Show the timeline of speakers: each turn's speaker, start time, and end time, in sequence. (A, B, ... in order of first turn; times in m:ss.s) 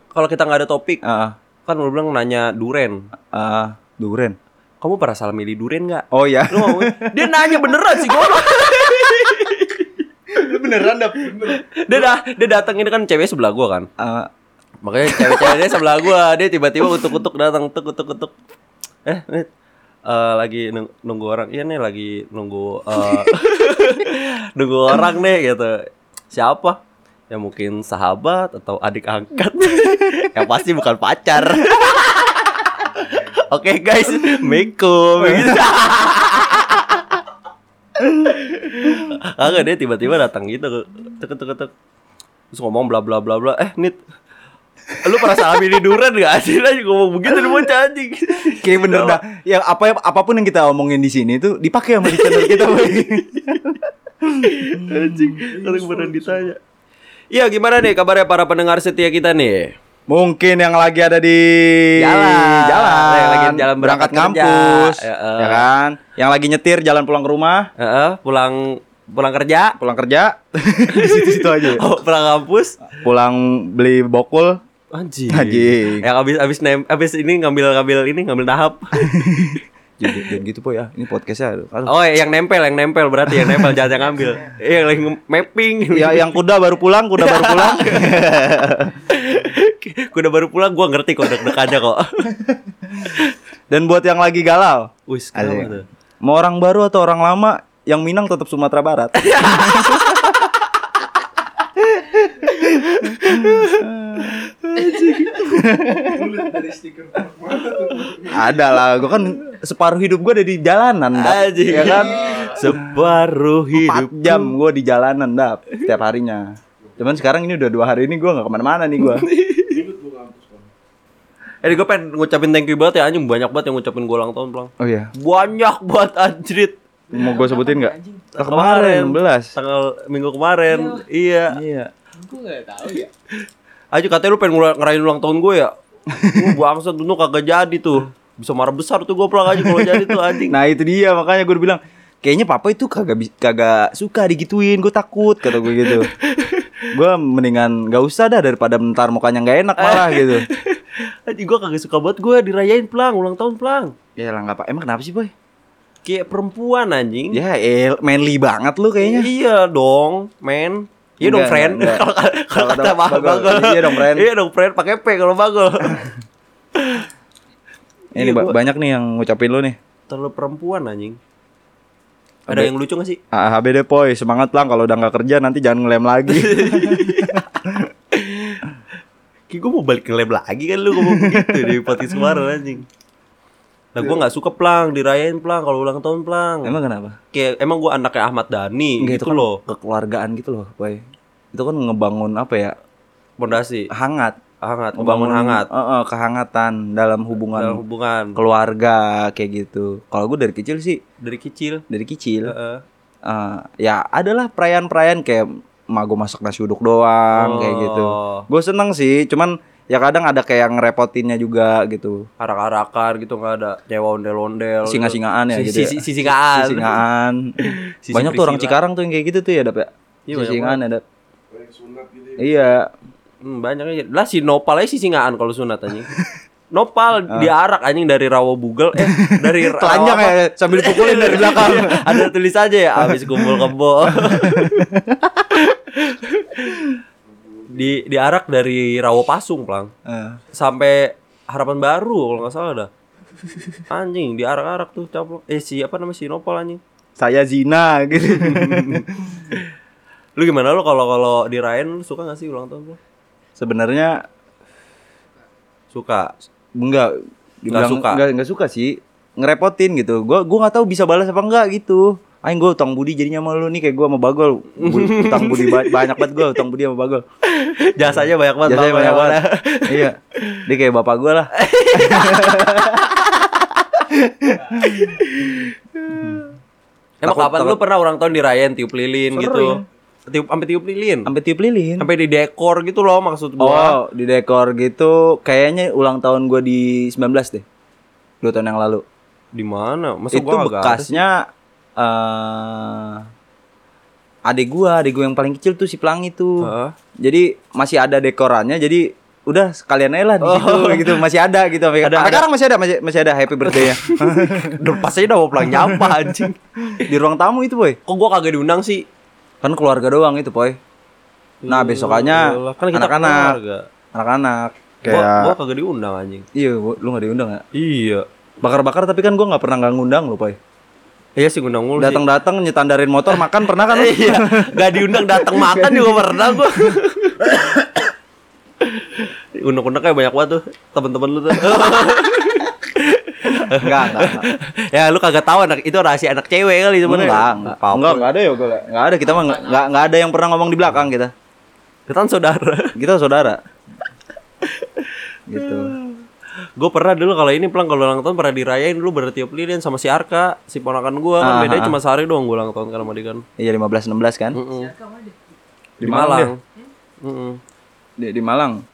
0:00.1-0:01.0 A
0:01.0-0:01.4 B
0:01.7-0:03.0 A
0:03.3-0:04.4 B
0:04.8-0:09.9 A
0:06.1-0:08.3 B
0:10.3-0:11.5 B
0:11.3-0:13.9 A
0:14.0-0:14.3 B
0:14.8-0:18.4 A
0:15.1-0:15.6 B
0:19.0-0:19.5 A
0:20.1-0:26.8 A
0:27.3-0:37.2 A
0:35.3-0:35.6 B
0:38.3-0:41.7 A
0:42.5-0:44.0 A
0:45.0-0:49.2 A
0:48.6-0:55.4 B
0:52.0-0:53.6 A
0:54.4-0:56.6 A
0:55.4-0:56.5 C
0:57.3-0:59.8 A
1:00.1-1:07.7 B
1:02.0-1:05.7 A
1:07.8-1:09.8 A
1:09.8-1:11.8 B
1:10.9-1:12.8 A
1:13.0-1:14.6 B
1:14.9-1:20.3 A
1:15.3-1:16.1 B
1:19.0-1:21.9 B
1:21.9-1:26.4 A
1:25.9-1:29.0 B
1:27.2-1:28.3 A
1:29.1-1:32.3 A
1:33.0-1:33.4 A
1:33.7-1:40.5 B
1:35.1-1:35.9 A
1:39.2-1:40.4 A
1:41.8-1:44.5 B
1:42.6-1:45.6 A
1:45.3-1:46.2 B
1:46.0-1:48.6 C
1:48.3-1:52.4 B
1:51.1-1:54.5 A
1:51.7-1:52.6 C
1:52.0-1:52.4 D
1:53.7-1:59.3 B
1:59.0-1:59.9 A
1:59.6-2:00.7 C
2:01.6-2:06.8 A
2:04.8-2:05.1 B
2:07.1-2:08.3 D
2:07.1-2:09.6 B
2:08.3-2:11.6 A
2:10.7-2:11.0 D
2:11.5-2:11.9 B
2:12.2-2:13.1 D
2:13.9-2:15.7 A
2:16.1-2:16.4 B
2:16.3-2:20.6 A
2:20.5-2:26.1 B
2:25.6-2:26.8 A
2:26.9-2:30.5 B
2:29.8-2:34.0 A
2:34.2-2:35.3 B
2:36.0-2:37.4 A
2:37.3-2:39.3 B
2:39.0-2:46.1 A
2:41.2-2:44.3 B
2:46.8-2:47.1 A
2:48.2-2:48.6 A
2:48.2-2:49.8 B
2:50.1-2:51.2 A
2:52.5-2:53.2 A
2:53.3-2:57.9 B
2:56.3-2:57.5 A
2:58.1-2:58.7 A
2:59.5-3:02.8 A
3:01.0-3:02.4 B
3:03.9-3:06.8 A
3:06.6-3:07.2 B
3:07.3-3:09.6 A
3:09.0-3:12.8 B
3:13.4-3:13.9 A
3:13.9-3:14.4 B
3:14.6-3:15.7 A
3:15.0-3:17.8 B
3:17.5-3:18.4 A
3:18.4-3:21.0 B
3:21.2-3:21.8 A
3:21.9-3:22.5 B
3:22.5-3:22.8 A
3:23.2-3:32.3 B
3:27.4-3:28.5 A
3:32.4-3:37.0 A
3:34.8-3:37.6 B
3:37.6-3:38.8 A
3:38.1-3:41.0 B
3:40.3-3:40.8 A
3:41.5-3:42.6 C
3:42.4-3:42.9 B
3:43.4-3:46.1 A
3:46.7-3:54.9 A
3:49.0-3:52.3 B
3:53.0-3:55.4 B
3:55.5-3:56.8 A
3:57.5-3:58.0 C
3:57.7-3:59.9 A
4:00.1-4:00.4 B
4:00.5-4:02.9 A
4:03.9-4:06.8 A
4:07.2-4:09.6 B
4:08.2-4:09.6 A
4:10.4-4:13.0 A
4:13.6-4:14.2 B
4:15.9-4:16.3 A
4:16.8-4:27.2 B
4:17.7-4:18.2 A
4:24.8-4:26.6 A
4:27.4-4:30.6 A
4:28.6-4:33.1 B
4:31.5-4:33.7 A
4:34.1-4:35.2 B
4:34.8-4:36.4 A
4:36.1-4:36.5 B
4:37.2-4:41.3 A
4:37.2-4:37.8 B
4:39.3-4:39.8 B
4:41.3-4:42.1 B
4:42.0-4:44.0 A
4:43.6-4:47.6 B
4:48.4-4:49.0 B
4:49.5-4:51.2 A
4:50.3-4:51.5 B
4:52.0-4:53.2 B
4:54.5-5:04.8 B
4:56.6-4:57.0 A
5:00.4-5:01.2 A
5:02.0-5:02.5 A
5:03.6-5:06.6 A
5:05.6-5:06.4 B
5:06.9-5:08.0 B
5:08.1-5:09.1 A
5:09.6-5:10.8 B
5:11.6-5:13.9 A
5:11.7-5:13.6 B
5:14.1-5:15.6 B
5:15.0-5:16.5 A
5:16.6-5:17.6 B
5:17.7-5:18.3 A
5:18.6-5:20.6 B
5:21.4-5:22.2 A
5:22.0-5:26.6 B
5:23.3-5:27.9 A
5:28.8-5:38.3 A
5:33.7-5:34.5 B
5:37.0-5:41.3 B
5:38.5-5:40.1 D
5:42.1-5:43.0 A
5:43.0-5:43.6 B
5:44.6-5:46.2 A
5:45.5-5:45.9 B
5:46.8-5:53.4 A
5:51.4-5:52.0 B
5:53.6-5:54.6 B
5:54.5-5:54.9 A
5:54.7-5:55.4 D
5:56.0-5:56.5 B
5:56.0-5:56.6 A
5:57.2-5:57.6 A
5:58.2-5:58.8 B